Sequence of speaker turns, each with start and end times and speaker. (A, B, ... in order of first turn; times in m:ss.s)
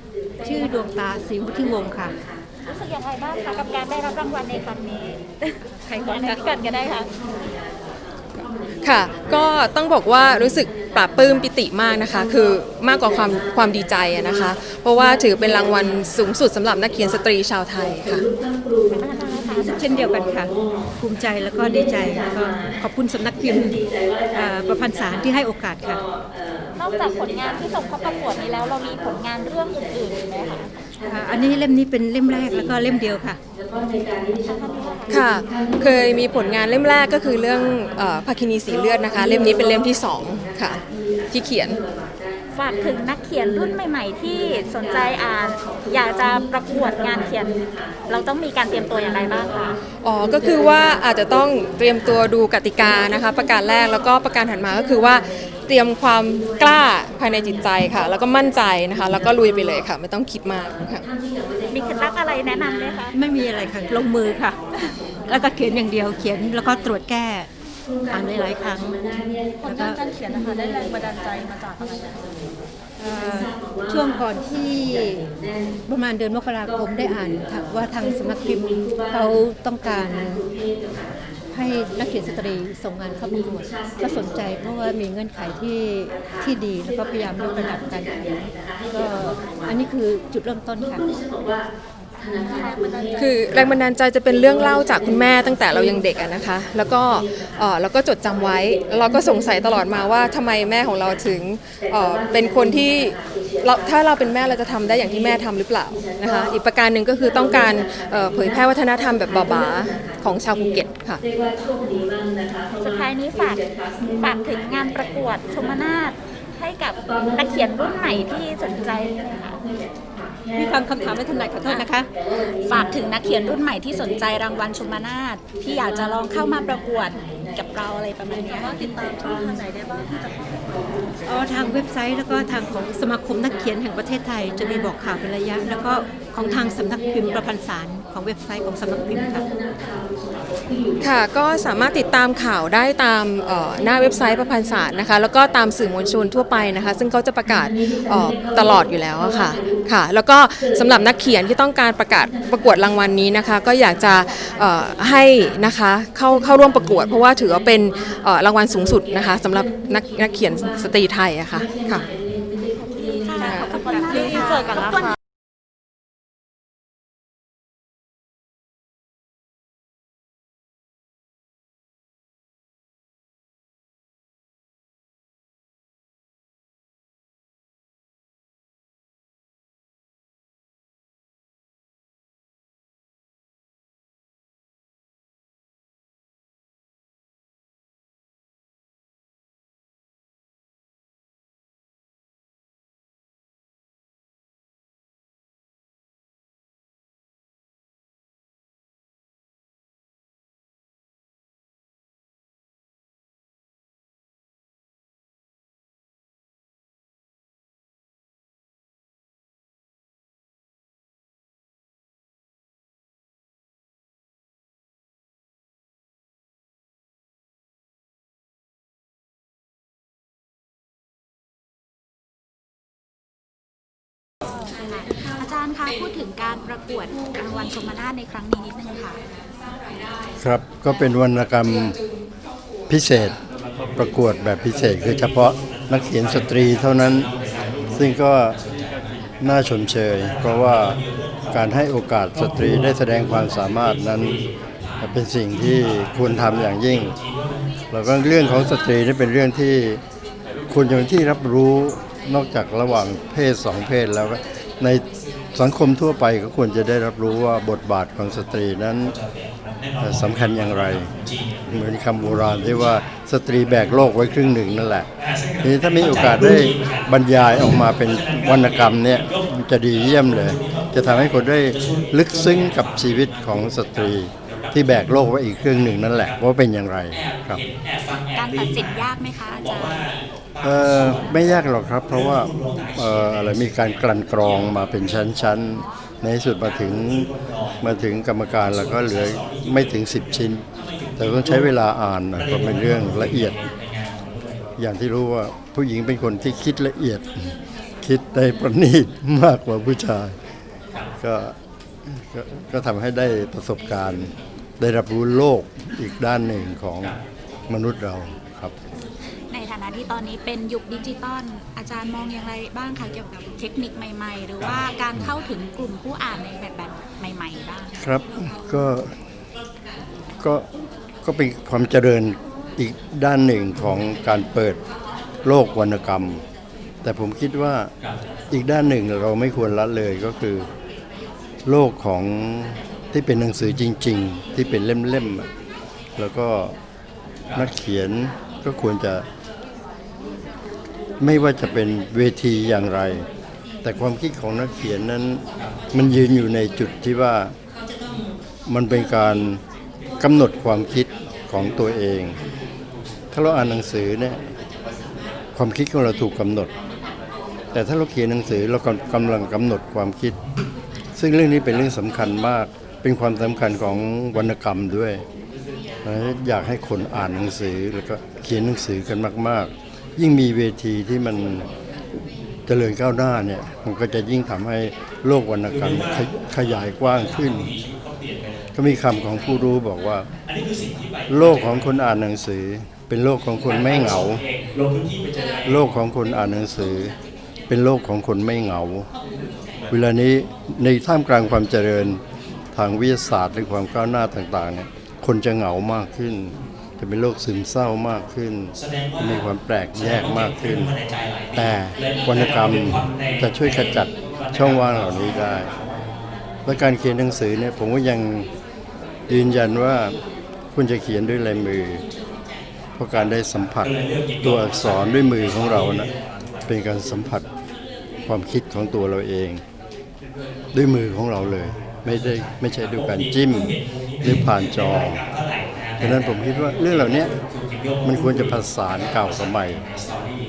0:00.4-0:02.1 A
0:02.7-0:07.1 B
0:08.8-0:18.2 C
0:18.9-0:19.8 B
0:19.6-0:23.8 A
0:24.3-0:26.0 A
0:26.8-0:30.7 B
0:31.0-0:33.4 A
0:34.4-0:35.2 B
0:35.1-0:41.8 C
0:42.5-0:49.8 B
0:50.0-1:01.0 C
1:01.7-1:03.1 B
1:03.1-1:04.6 A
1:05.3-1:07.5 A
1:08.1-1:10.0 A
1:09.6-1:12.2 D
1:13.0-1:15.3 A
1:15.8-1:20.4 A
1:21.5-1:31.0 A
1:32.5-1:33.0 D
1:33.2-1:51.2 C
1:52.8-1:53.6 B
1:54.2-1:59.6 B
2:00.6-2:02.1 A
2:01.6-2:01.9 B
2:02.6-2:08.8 B
2:08.6-2:10.3 D
2:11.3-2:19.4 A
2:21.0-2:42.0 C
2:42.8-2:45.1 B
2:43.4-2:43.8 C
2:43.9-2:45.1 D
3:44.8-3:49.2 B
3:50.4-3:52.0 E
3:52.9-3:53.4 E
3:54.0-3:57.3 E
3:57.9-3:58.6 E
3:59.4-4:04.4 E
4:05.0-4:07.2 E
4:07.9-4:10.0 E
4:10.7-4:19.2 E
4:20.0-4:21.1 E
4:21.7-4:25.1 E
4:25.6-4:37.6 E
4:38.3-4:40.0 B
4:40.6-4:53.7 E
4:54.8-5:00.3 E
5:01.2-5:01.5 E
5:02.1-5:07.2 E
5:07.7-5:08.7 E
5:09.5-5:17.9 B
5:18.0-5:19.1 E
5:21.2-5:24.8 E
5:25.4-5:26.4 E
5:27.0-5:27.9 E
5:28.5-5:30.7 E
5:31.6-5:35.5 E
5:36.2-5:36.8 E
5:37.5-5:39.2 E
5:41.2-5:43.3 E
5:43.8-5:47.5 E
5:48.6-5:49.6 E
5:50.2-5:52.4 E
5:53.3-5:54.4 E
5:55.5-5:56.7 E
5:57.7-6:00.4 E
6:01.2-6:05.2 E
6:06.0-6:11.7 E
6:12.7-6:17.8 E
6:18.7-6:20.3 E
6:21.3-6:24.4 E
6:25.6-6:27.1 E
6:27.7-6:29.1 E
6:29.9-6:32.2 E
6:32.7-6:40.9 E
6:41.5-6:45.7 E
6:46.6-6:48.5 E
6:49.3-6:50.2 E
6:50.7-6:52.0 E
6:53.0-6:56.1 E
6:56.6-6:57.4 E
6:58.3-6:59.6 E
7:00.7-7:05.2 E
7:06.0-7:07.3 E
7:08.0-7:09.8 E